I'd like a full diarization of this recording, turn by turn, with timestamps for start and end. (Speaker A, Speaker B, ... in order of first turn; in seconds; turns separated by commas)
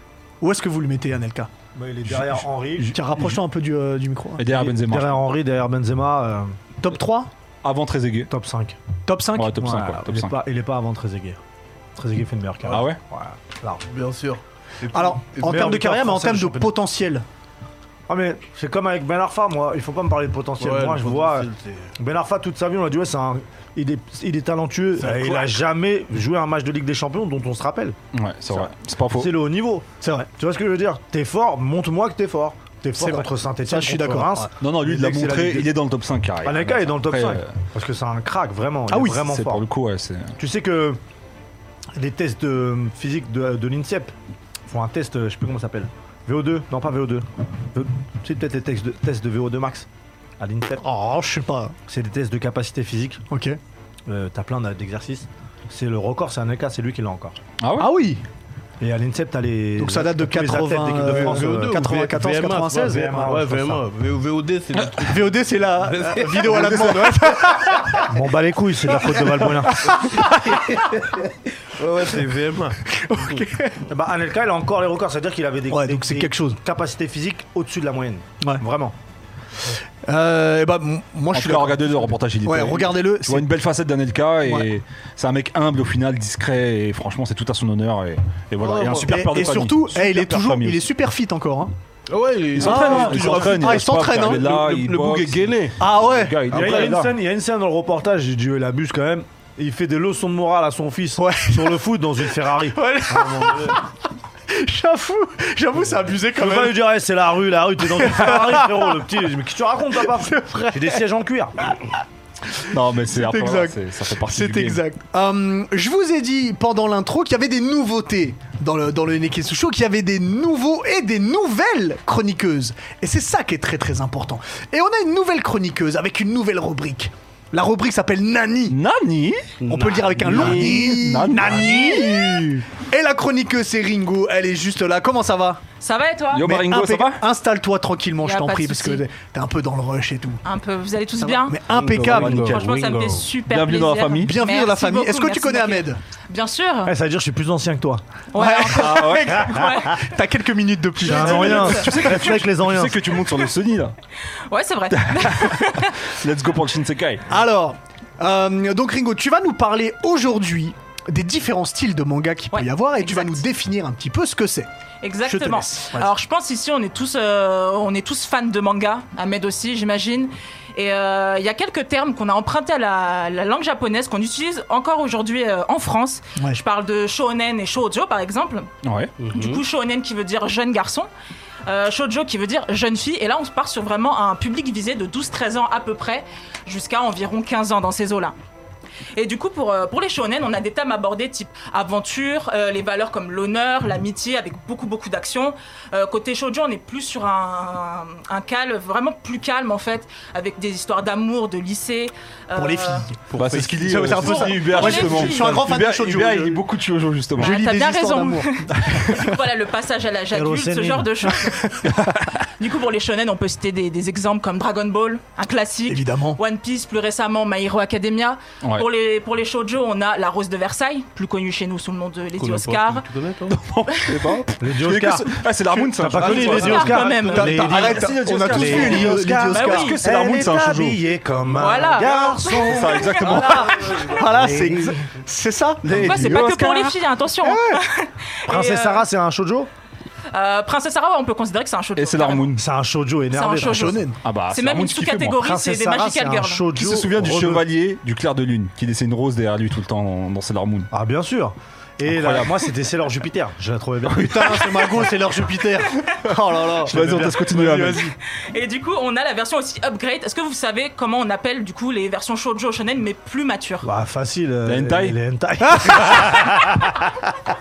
Speaker A: 0.4-1.5, Speaker B: 1.8-2.9, Speaker C: 2.1-3.4, Speaker A: 2.9-4.4, Speaker C: 4.4-5.2, Speaker B: 4.5-6.5, Speaker A: 6.8-7.3, Speaker C: 7.6-8.3, Speaker B: 8.3-8.8, Speaker A: 9.1-9.9, Speaker C: 9.4-10.3, Speaker B: 9.6-11.4, Speaker B: 11.9-13.8, Speaker C: 12.7-13.0, Speaker D: 13.8-15.8, Speaker A: 14.9-17.2, Speaker B: 15.4-16.7, Speaker B: 18.1-28.0, Speaker D: 20.6-21.9, Speaker D: 25.0-25.5, Speaker C: 28.1-29.3, Speaker B: 28.5-35.7, Speaker A: 30.0-30.3, Speaker A: 33.0-34.5, Speaker C: 34.6-37.5, Speaker B: 36.4-39.6, Speaker A: 38.9-39.2, Speaker C: 39.1-40.4, Speaker B: 40.4-41.0, Speaker B: 41.9-44.1, Speaker B: 44.7-49.9, Speaker B: 50.4-50.8, Speaker A: 50.8-51.8, Speaker B: 51.9-53.2, Speaker A: 53.3-53.6, Speaker B: 54.1-57.4, Speaker C: 57.6-57.9, Speaker A: 57.8-58.2, Speaker B: 58.8-61.8, Speaker A: 59.8-63.2, Speaker D: 61.0-67.1, Speaker B: 62.8-63.8, Speaker A: 65.0-68.1, Speaker B: 68.1-70.0, Speaker A: 68.9-71.0, Speaker D: 70.2-73.4, Speaker A: 72.9-73.8, Speaker B: 73.9-79.0, Speaker A: 75.7-76.6, Speaker A: 80.1-83.5, Speaker C: 81.3-90.9, Speaker D: 88.6-89.2, Speaker A: 89.1-91.7, Speaker D: 92.1-95.8, Speaker C: 92.5-97.1, Speaker A: 92.6-94.4, Speaker A: 95.8-96.4, Speaker B: 96.5-103.8, Speaker D: 96.5-96.9, Speaker A: 101.2-101.8, Speaker A: 102.7-103.8, Speaker A: 104.5-106.8, Speaker B: 106.3-111.6, Speaker A: 107.8-109.0, Speaker A: 110.0-111.0, Speaker C: 112.7-114.8, Speaker A: 113.1-128.8, Speaker C: 128.7-129.5, Speaker D: 129.6-130.7, Speaker A: 129.7-135.6, Speaker C: 130.2-132.7, Speaker E: 135.8-136.5, Speaker C: 136.3-137.2, Speaker A: 136.4-140.4, Speaker E: 138.2-139.0, Speaker E: 140.4-141.6, Speaker A: 141.2-142.5, Speaker D: 141.7-143.2, Speaker C: 141.8-144.3, Speaker E: 142.4-146.9, Speaker A: 144.2-146.0, Speaker B: 146.8-148.0, Speaker E: 148.3-150.0, Speaker A: 148.3-152.3, Speaker C: 148.7-149.5, Speaker B: 151.0-153.0, Speaker C: 151.1-153.9, Speaker E: 154.5-155.9, Speaker C: 154.9-157.2, Speaker A: 157.3-164.7, Speaker E: 162.5-163.4, Speaker E: 165.0-178.7, Speaker A: 165.2-166.1, Speaker C: 178.8-179.1, Speaker D: 179.2-179.6, Speaker E: 179.3-181.1, Speaker E: 181.7-188.3, Speaker E: 189.2-203.1, Speaker A: 202.6-203.1, Speaker D: 203.3-204.4, Speaker C: 203.4-207.6, Speaker A: 203.8-206.6, Speaker E: 204.2-205.6, Speaker A: 207.4-209.3, Speaker E: 207.4-211.8, Speaker B: 210.3-211.1, Speaker E: 212.6-223.1, Speaker A: 215.9-216.4, Speaker D: 222.4-223.6, Speaker C: 223.5-231.0, Speaker B: 224.6-225.4, Speaker B: 225.9-233.5, Speaker E: 226.2-227.5, Speaker A: 226.7-230.0, Speaker E: 229.5-230.0, Speaker D: 231.4-232.0, Speaker E: 231.6-233.6, Speaker C: 232.6-233.9, Speaker A: 233.2-237.8, Speaker B: 234.4-234.7, Speaker E: 235.9-239.0, Speaker C: 235.9-236.3, Speaker B: 238.5-239.7, Speaker E: 240.3-242.5, Speaker C: 242.0-242.7, Speaker B: 242.6-244.0, Speaker E: 243.3-246.7, Speaker A: 243.7-244.2, Speaker C: 244.2-245.5, Speaker B: 245.4-247.7, Speaker C: 246.8-250.9, Speaker B: 250.9-254.7, Speaker C: 252.1-252.7, Speaker A: 254.1-258.1, Speaker C: 254.2-255.1, Speaker B: 256.8-257.5, Speaker C: 256.9-258.1, Speaker E: 258.5-263.9, Speaker B: 263.8-267.0, Speaker C: 264.7-265.2, Speaker A: 265.6-266.7